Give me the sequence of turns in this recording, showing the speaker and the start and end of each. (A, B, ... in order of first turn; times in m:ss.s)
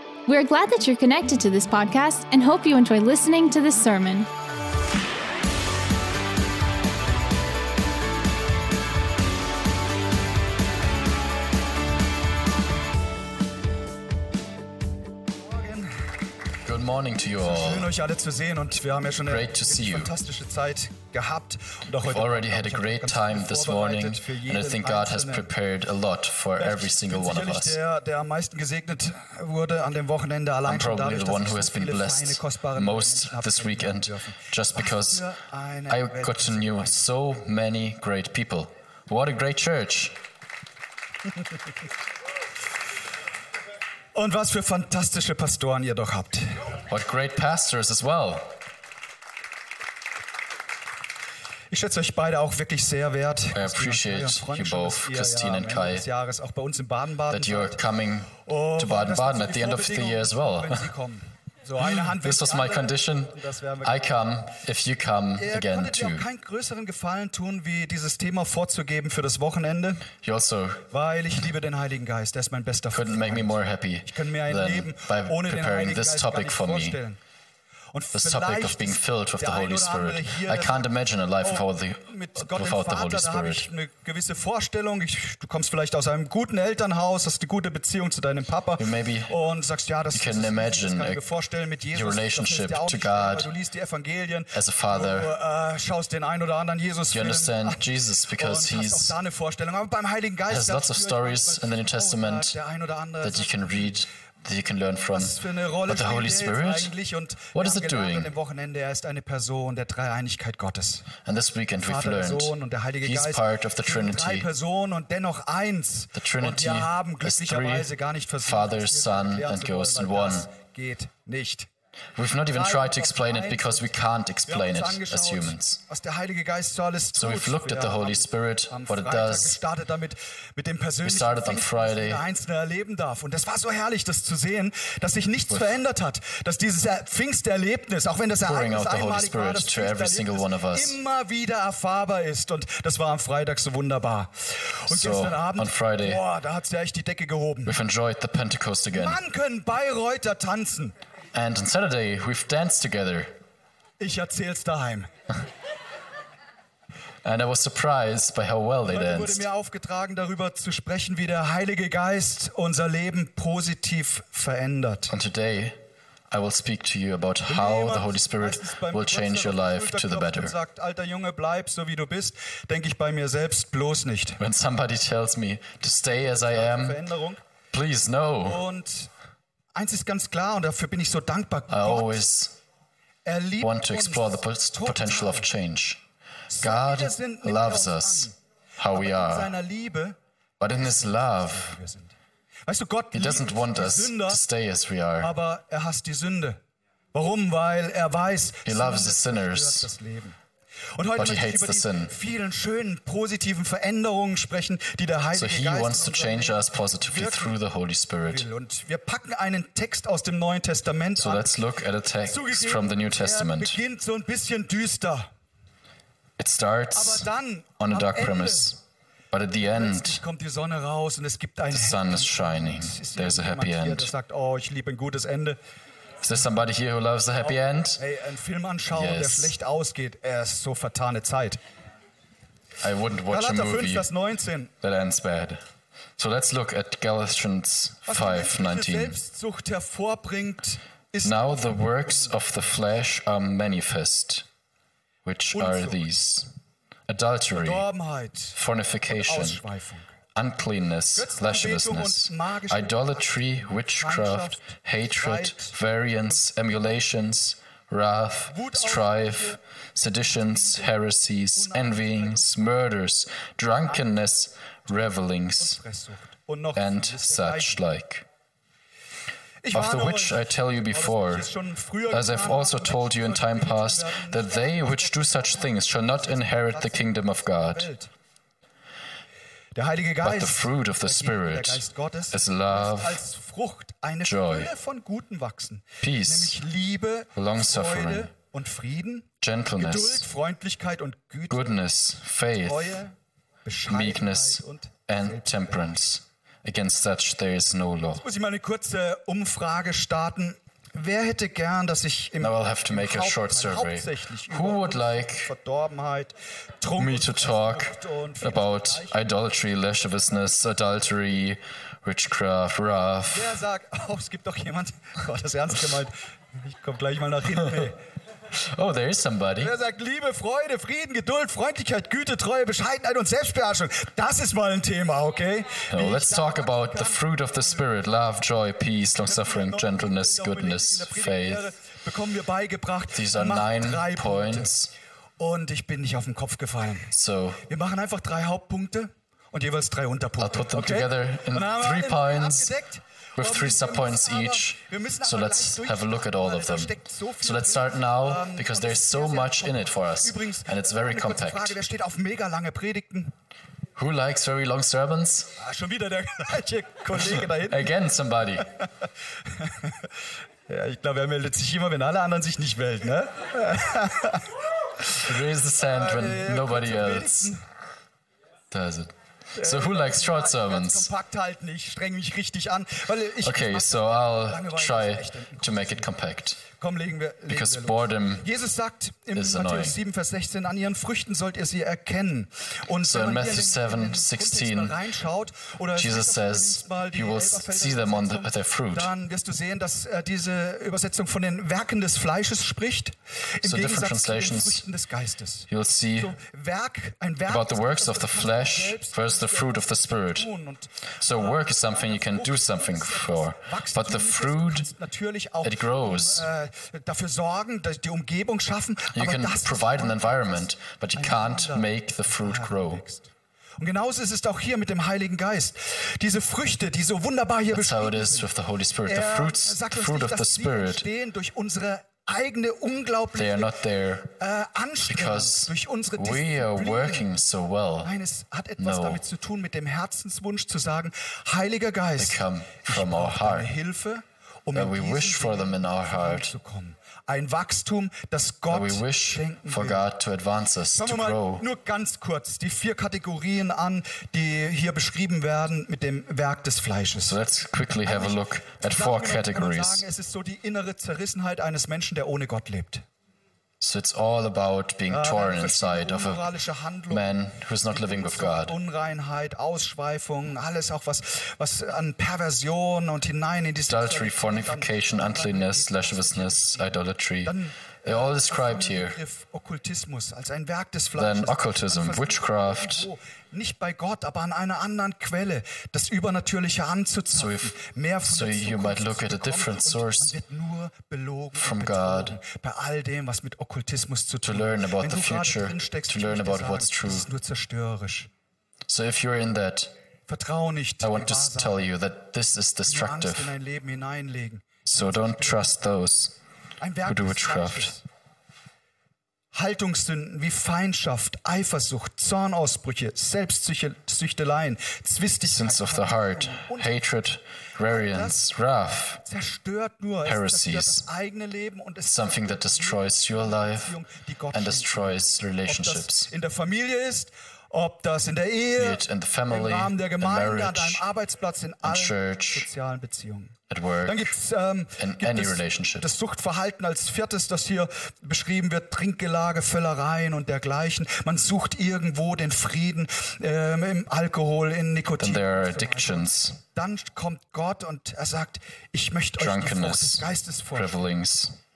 0:00.3-0:04.3 A
0:15.4-0:16.0 B
0:16.6-0:17.9 C
0:17.4-0:25.5 B
0:19.3-0:20.1 C
0:22.0-0:27.8 C
0:26.6-0:37.0 B
0:30.7-0:35.3 C
0:35.9-0:40.2 C
0:44.2-0:46.7 B
0:46.9-0:48.6 C
0:51.7-0:57.8 B
0:53.5-0:56.0 C
0:57.3-1:00.9 C
0:58.4-1:04.0 B
1:01.8-1:06.3 C
1:05.4-1:10.1 B
1:10.2-1:10.9 C
1:10.9-1:17.2 B
1:12.9-1:17.0 C
1:17.9-1:20.9 B
1:18.2-1:23.7 C
1:21.4-1:44.0 B
1:28.8-1:29.3 C
1:30.1-1:31.2 C
1:31.9-1:33.5 C
1:34.5-1:35.3 C
1:37.1-1:39.2 C
1:40.5-1:42.6 C
1:43.2-1:46.9 C
1:45.1-1:51.1 B
1:47.5-1:48.3 C
1:51.2-1:54.5 C
1:51.8-2:01.7 B
1:56.2-2:00.5 C
2:02.2-2:05.8 C
2:02.5-2:04.0 B
2:04.5-2:27.8 B
2:07.1-2:09.6 C
2:11.0-2:12.2 C
2:18.4-2:21.0 C
2:24.9-2:26.2 C
2:27.7-2:29.2 C
2:28.9-2:31.0 B
2:31.3-2:33.4 C
2:34.0-2:35.1 B
2:37.2-2:39.4 C
2:38.9-2:45.1 B
2:45.1-2:45.8 C
2:46.3-2:50.6 C
2:47.5-2:54.4 B
2:54.4-2:57.0 C
2:56.1-2:57.4 B
2:57.7-2:58.7 C
2:58.4-2:59.1 B
2:59.8-3:02.2 B
3:01.7-3:02.6 C
3:03.2-3:05.5 B
3:03.6-3:06.0 C
3:06.5-3:08.4 B
3:06.6-3:09.5 C
3:08.9-3:10.2 B
3:10.6-3:11.8 C
3:10.8-3:12.2 B
3:12.7-3:14.4 B
3:13.1-3:15.3 C
3:15.2-3:16.6 B
3:17.1-3:20.4 B
3:18.6-3:19.9 C
3:21.0-3:27.6 B
3:21.2-3:22.1 C
3:25.3-3:28.5 C
3:28.3-3:31.6 B
3:31.2-3:33.8 C
3:32.2-3:35.3 B
3:36.4-3:37.3 C
3:36.9-3:38.8 B
3:37.8-3:38.8 C
3:39.3-3:40.2 C
3:39.6-3:45.6 B
3:41.7-3:44.1 C
3:46.2-3:48.0 C
3:47.4-3:51.6 B
3:48.9-3:49.6 C
3:52.8-3:54.1 C
3:53.3-3:54.7 B
3:54.8-3:55.6 C
3:56.2-3:59.2 C
3:58.1-4:02.3 B
4:01.2-4:04.5 C
4:05.2-4:06.5 C
4:05.5-4:06.1 B
4:07.1-4:07.8 C
4:07.5-4:08.6 B
4:08.6-4:09.6 C
4:09.1-4:10.1 B
4:10.4-4:25.8 C
4:11.2-4:13.1 B
4:13.9-4:14.6 B
4:15.2-4:15.8 B
4:18.5-4:19.6 B
4:20.2-4:20.9 B
4:21.5-4:22.6 B
4:25.6-4:27.8 B
4:26.8-4:28.3 C
4:29.6-4:38.1 B
4:29.7-4:31.5 C
4:32.1-4:37.9 C
4:39.8-4:51.7 B
4:40.2-4:43.2 C
4:44.2-4:44.7 C
4:46.0-4:46.6 C
4:47.4-4:48.3 C
4:49.4-4:50.3 C
4:51.5-4:53.0 C
4:52.6-4:56.0 B
4:53.9-4:58.2 C
4:58.2-5:09.2 B
5:02.4-5:05.5 C
5:07.0-5:13.6 C
5:13.3-5:18.0 B
5:18.5-5:19.7 C
5:19.6-5:27.8 B
5:25.9-5:31.7 C
5:29.2-5:34.7 B
5:33.1-5:34.9 C
5:35.4-5:37.1 B
5:37.1-5:37.6 C
5:37.7-5:53.3 B
5:40.4-5:42.8 C
5:43.4-5:51.8 C
5:54.0-5:55.6 C
5:55.6-5:57.9 B
5:57.1-5:58.7 C
5:59.5-6:00.0 B
6:00.7-6:04.5 B
6:05.2-6:07.5 C
6:05.8-6:07.6 B
6:08.7-6:11.1 C
6:09.6-6:16.1 B
6:13.4-6:16.6 C
6:16.7-6:58.5 B
6:17.5-6:18.5 C
6:19.3-6:20.0 C
6:23.0-6:25.0 C
6:25.9-6:29.1 C
6:33.6-6:34.9 C
6:35.7-6:36.4 C
6:37.5-6:40.5 C
6:41.2-6:44.9 C
6:45.6-6:46.5 C
6:49.1-6:53.0 C
6:57.7-7:01.1 C
6:59.0-7:03.8 B
7:03.3-7:04.3 C
7:04.4-7:07.3 B
7:05.1-7:08.1 C
7:08.0-7:20.0 B
7:08.8-7:09.2 C
7:12.2-7:13.7 C
7:14.7-7:16.5 C
7:18.7-7:21.7 C
7:20.9-7:27.4 B
7:27.2-7:30.0 C
7:28.0-7:33.0 B
7:33.8-7:36.5 C
7:35.1-7:37.4 B
7:37.1-7:38.8 C
7:37.9-8:08.3 B
7:43.9-7:49.2 C
7:51.2-7:53.1 C
7:57.3-8:00.4 C
8:01.6-8:02.4 C
8:04.4-8:07.3 C
8:08.9-8:09.9 C
8:10.3-8:11.9 B
8:11.0-8:13.6 C
8:12.8-8:15.7 B
8:14.9-8:16.4 C
8:16.8-8:18.0 B
8:17.0-8:17.9 C
8:19.5-8:27.0 B
8:25.4-8:29.2 C
8:27.9-8:28.4 B
8:29.2-9:01.0 B
8:30.2-8:31.1 C
8:32.0-8:34.0 C
8:34.5-8:36.3 C
8:38.8-8:41.0 C
8:41.8-8:42.7 C
8:43.7-8:44.3 C
8:45.0-8:46.1 C
8:55.2-8:56.6 C
8:59.4-9:01.6 C